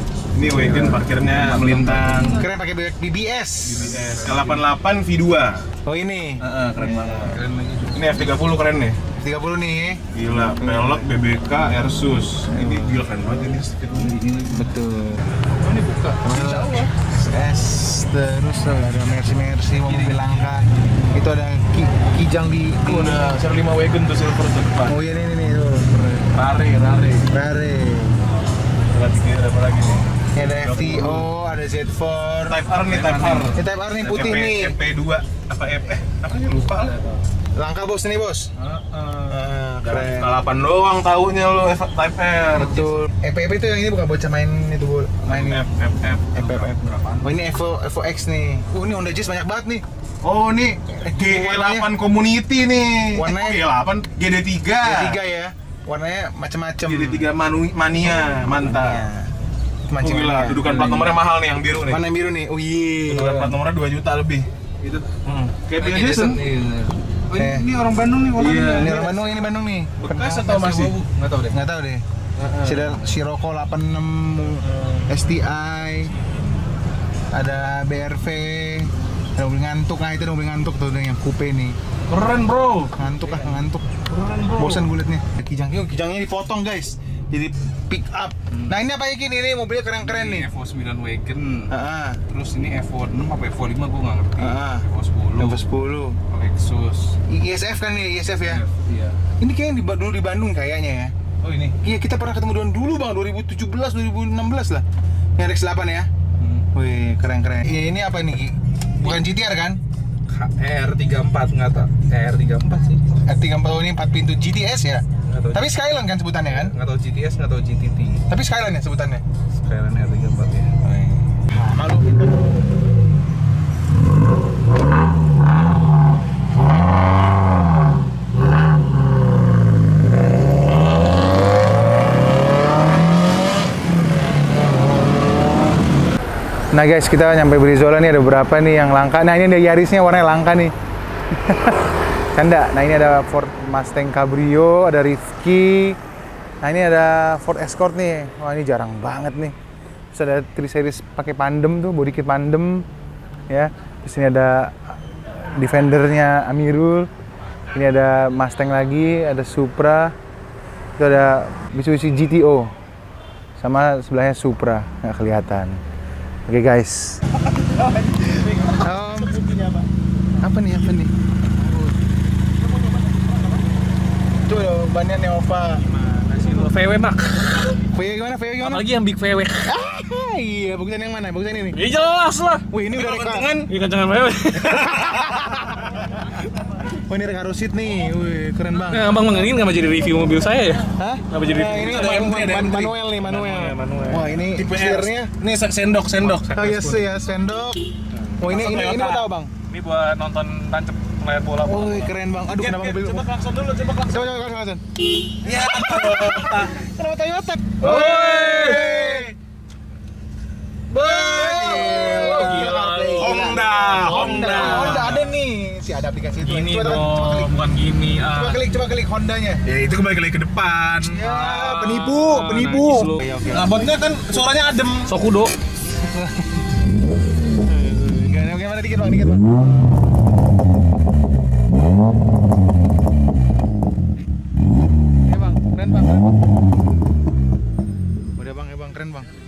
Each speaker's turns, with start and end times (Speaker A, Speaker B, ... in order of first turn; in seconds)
Speaker A: 0.3-2.4, 3.6-5.7, 6.4-9.0, 10.1-14.7, 16.3-16.6, 19.8-20.4, 22.8-25.0, 26.0-27.3, 28.9-31.3, 32.5-37.0, 38.6-43.0, 45.3-47.4, 50.2-55.2, 56.8-59.0, 60.0-62.0, 63.1-66.4, 68.3-69.3, 70.0-71.1, 82.1-82.9, 84.1-84.8, 110.5-111.7, 121.5-122.4, 168.3-168.7, 191.6-192.9, 194.5-196.8, 198.5-198.8, 202.6-204.3, 205.4-206.8, 207.8-209.3, 210.9-215.3, 216.5-216.8, 219.7-221.3, 223.5-225.1
Speaker B: 0.6-1.0, 2.3-4.2, 5.8-7.1, 9.1-10.0, 10.6-11.0, 12.5-13.1, 14.5-15.1, 16.2-23.3, 24.9-25.9, 27.3-28.3, 30.3-32.6, 33.5-34.8, 37.5-38.5, 39.3-40.4, 42.6-45.7, 46.3-49.8, 51.0-51.9, 53.1-53.6, 54.8-57.3, 58.5-59.3, 59.9-60.9, 61.9-63.6, 67.3-67.7, 68.7-71.0, 71.5-72.0, 72.6-76.2, 77.3-81.8, 83.0-84.0, 84.5-90.5, 91.7-92.2, 94.4-96.2, 97.3-98.6, 99.4-101.1, 101.8-104.8, 105.4-106.1, 106.7-109.8, 113.2-116.7, 118.3-119.2, 120.8-121.3, 136.7-140.7, 141.3-146.0, 146.6-149.6, 150.1-152.9, 153.5-155.0, 155.6-157.1, 157.7-160.2, 161.0-162.7, 163.6-165.8, 166.5-167.2, 168.8-169.4, 170.4-171.1, 174.4-175.8, 177.9-178.9, 179.6-181.8, 182.7-183.7, 184.6-186.0, 187.0-189.2, 190.9-195.3, 196.4-197.9, 198.4-199.5, 201.6-203.3, 204.0-204.8, 205.4-209.3, 210.9-217.5, 218.3-219.6, 221.0-223.9, 225.9-226.6, 227.7-229.6, 235.3-236.3, 238.4-239.3
Speaker C: 1.2-2.4, 3.9-4.6, 6.8-8.3, 15.6-16.9, 32.8-34.5, 60.6-61.1, 65.3-69.0, 71.2-71.6, 72.4-73.0, 90.0-91.7, 92.3-95.6, 96.3-97.2, 98.5-99.2, 110.3-113.0, 115.3-115.6, 116.7-118.2, 119.6-120.7, 175.9-177.8, 178.6-179.7, 181.7-185.1, 188.9-192.7, 193.3-194.3, 196.7-197.0, 198.2-202.1, 207.9-208.9, 211.5-215.3, 216.4-218.6, 221.2-223.2, 225.1-225.5